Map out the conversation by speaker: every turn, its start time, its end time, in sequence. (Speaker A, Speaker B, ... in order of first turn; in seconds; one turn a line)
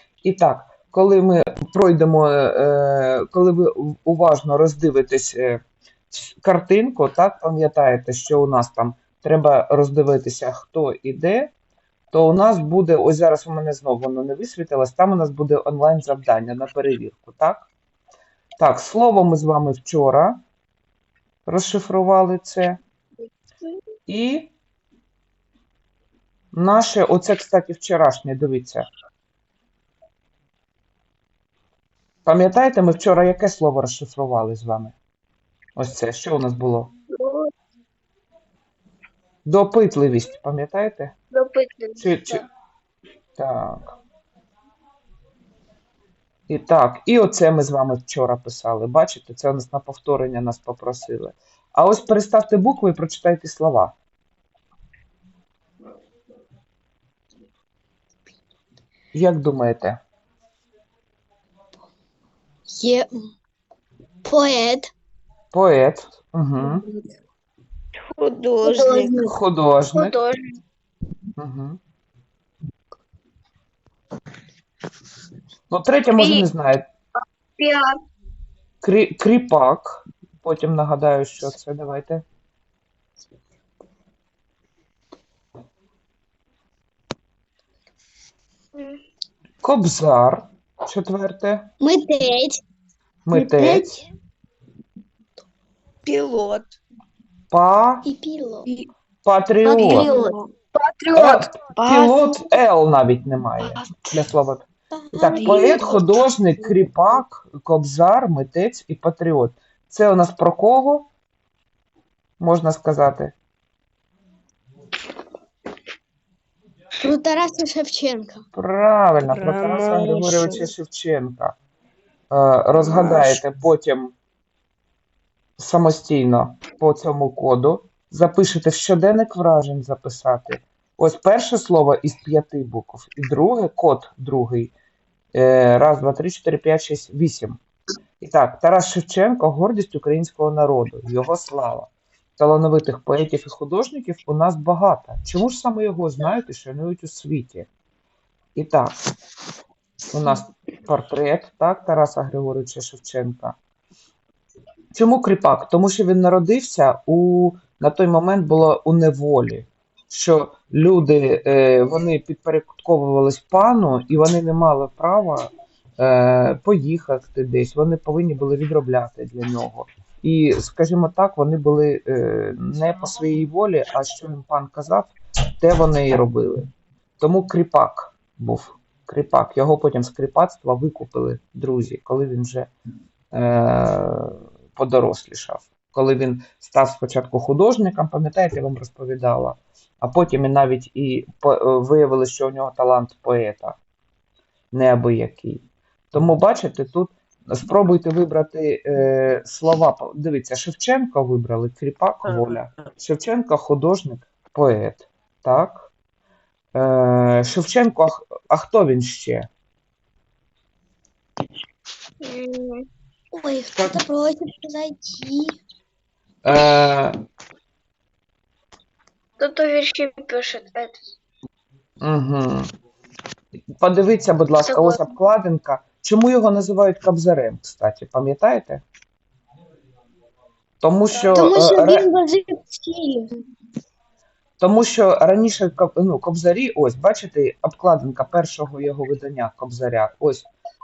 Speaker A: 0.2-11.5
Speaker A: 12.1-17.7
Speaker A: 18.6-20.4
Speaker A: 21.4-22.8
Speaker A: 24.1-24.5
Speaker A: 26.5-28.9
Speaker A: 32.2-34.9
Speaker A: 35.8-36.9
Speaker B: 37.2-37.5
Speaker A: 39.4-41.1
Speaker B: 41.3-42.0
Speaker A: 42.0-42.4
Speaker A: 43.4-43.9
Speaker A: 46.5-53.9
Speaker A: 59.1-60.0
Speaker C: 62.7-63.1
Speaker C: 64.2-64.9
Speaker A: 65.5-66.8
Speaker D: 68.0-69.2
Speaker C: 68.7-69.2
Speaker A: 69.2-70.2
Speaker B: 69.9-70.4
Speaker A: 71.4-71.8
Speaker A: 75.7-76.9
Speaker B: 76.2-76.5
Speaker A: 78.8-82.2
Speaker A: 89.6-91.7
Speaker C: 91.8-92.6
Speaker A: 93.2-94.0
Speaker C: 93.4-93.8
Speaker D: 96.0-96.7
Speaker A: 97.5-98.0
Speaker C: 98.0-98.7
Speaker A: 99.2-100.1
Speaker B: 99.6-102.0
Speaker D: 99.8-100.3
Speaker A: 101.1-111.1
Speaker C: 104.9-106.0
Speaker B: 105.3-106.0
Speaker A: 112.4-113.3
Speaker C: 117.0-118.4
Speaker A: 118.5-121.5
Speaker D: 119.2-120.7
Speaker A: 122.3-124.1
Speaker D: 122.8-123.3
Speaker A: 125.6-134.7
Speaker A: 135.3-137.6
Speaker A: 138.2-147.7
Speaker A: 148.6-148.9
Speaker A: 150.1-153.5
Speaker A: 154.9-176.7
Speaker A: 177.2-182.7
Speaker A: 183.3-193.8
Speaker A: 194.7-205.9
Speaker A: 206.7-209.5
Speaker B: 212.3-212.8
Speaker C: 213.3-215.6
Speaker A: 213.7-214.0
Speaker A: 216.4-217.2
Speaker B: 219.4-221.0
Speaker A: 222.0-222.7
Speaker A: 223.8-228.8
Speaker B: 224.7-225.0
Speaker A: 230.8-232.1
Speaker C: 231.3-233.3
Speaker A: 234.6-240.5